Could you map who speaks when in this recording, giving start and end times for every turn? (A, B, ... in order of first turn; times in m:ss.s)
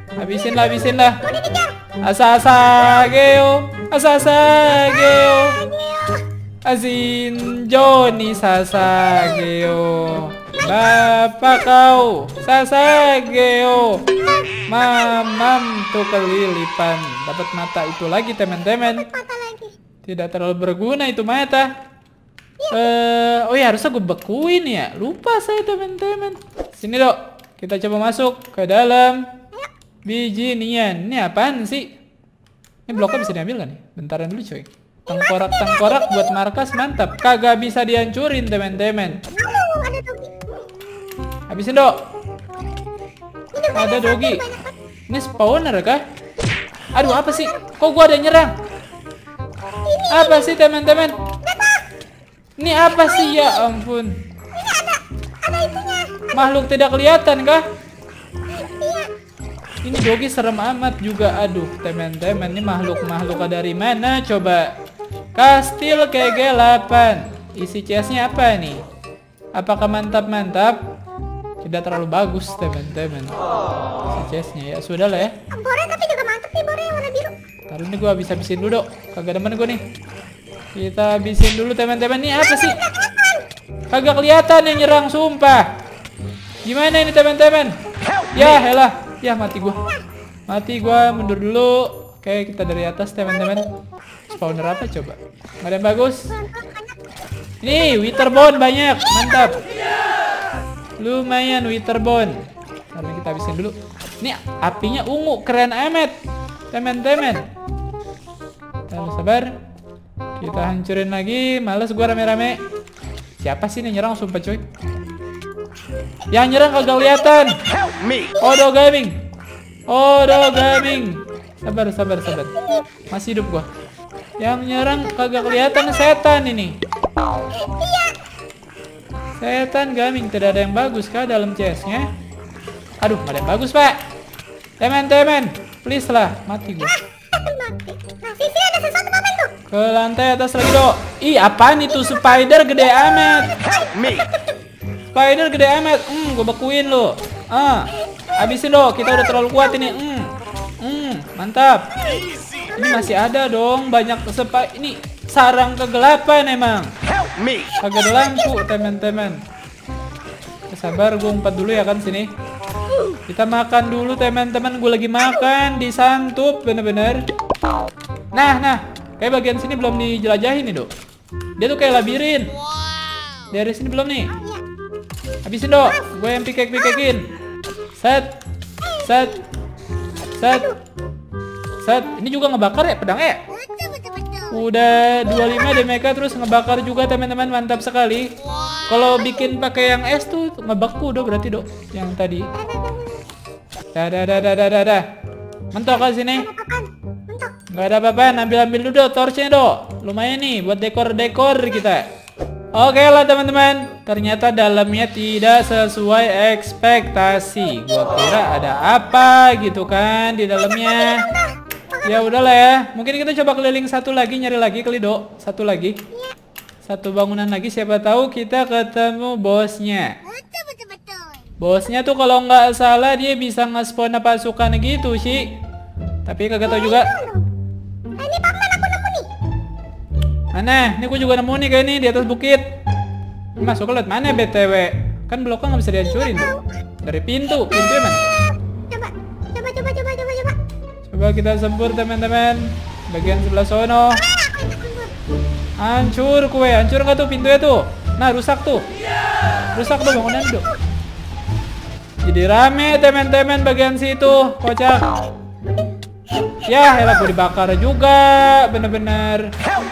0:00.2-0:01.2 A
0:01.1-0:01.8 B
0:02.0-0:05.6 A
0:05.4-0:06.2 B
0:06.6-0:14.1 A
0:14.2-0:14.6 B
0:14.7-0:19.1 A
0:19.0-0:19.7 B
0:20.0-0:21.7 A
0:22.6-0:22.9 B
0:22.7-0:29.3 A
0:30.1-0:31.9 A
0:32.9-0:39.2 A
0:35.1-0:36.2 B
0:39.3-0:40.6 B
0:41.5-0:42.0 A
0:43.5-0:44.8 B
0:43.7-0:44.4 A
0:45.1-0:46.0 A
0:46.9-0:48.5 A
0:49.8-0:50.6 B
0:50.1-0:51.1 A
0:51.4-0:51.8 B
0:52.6-0:54.2 A
0:53.1-0:53.6 B
0:54.6-0:56.3 B
0:56.3-0:57.6 A
0:58.5-0:59.1 B
0:59.8-1:04.7 A
1:05.4-1:08.8 A
1:09.6-1:10.8 A
1:11.6-1:13.4 A
1:14.1-1:15.4 A
1:15.5-1:17.3 B
1:17.7-1:19.8 A
1:20.7-1:22.8 A
1:23.1-1:23.4 B
1:23.9-1:25.7 A
1:26.6-1:27.7 A
1:28.3-1:29.8 A
1:30.5-1:33.7 A
1:34.3-1:36.3 A
1:36.4-1:36.9 B
1:37.6-1:39.6 A
1:41.0-1:42.4 A
1:42.9-1:46.1 A
1:46.7-1:47.4 A
1:48.9-1:49.5 A
1:50.4-1:52.6 A
1:53.4-1:54.6 A
1:56.3-1:57.6 A
1:58.4-1:59.2 A
1:59.9-2:02.5 A
2:03.1-2:03.7 A
2:04.4-2:06.7 A
2:07.6-2:08.2 B
2:09.4-2:12.1 A
2:13.0-2:14.0 A
2:14.8-2:16.9 A
2:17.3-2:19.6 B
2:19.7-2:23.5 A
2:23.9-2:24.2 B
2:25.1-2:31.8 A
2:32.8-2:36.9 A
2:37.8-2:39.4 A
2:40.7-2:42.3 A
2:43.3-2:47.2 A
2:48.3-2:50.9 A
2:51.6-2:52.5 A
2:53.5-2:54.4 A
2:54.4-2:54.6 B
2:55.4-2:57.3 A
2:58.0-2:58.3 A
2:59.0-2:59.4 A
3:00.4-3:00.7 A
3:01.8-3:03.4 A
3:03.5-3:04.5 B
3:04.5-3:08.3 A
3:08.9-3:12.5 A
3:12.6-3:13.1 B
3:13.9-3:15.1 A
3:15.7-3:16.5 A
3:16.3-3:17.6 B
3:17.7-3:22.1 A
3:22.7-3:31.3 A
3:32.0-3:36.0 A
3:36.8-3:40.1 A
3:40.3-3:41.5 B
3:41.6-3:45.5 A
3:46.2-3:47.1 A
3:46.6-3:47.4 B
3:48.2-3:49.3 B
3:50.6-3:52.7 A
3:53.6-3:56.5 A
3:56.2-3:56.6 B
3:57.0-3:58.2 A
3:58.9-4:00.6 B
4:01.1-4:04.2 A
4:04.6-4:05.1 B
4:05.8-4:08.8 A
4:09.7-4:10.7 A
4:12.2-4:15.1 A
4:16.6-4:19.5 A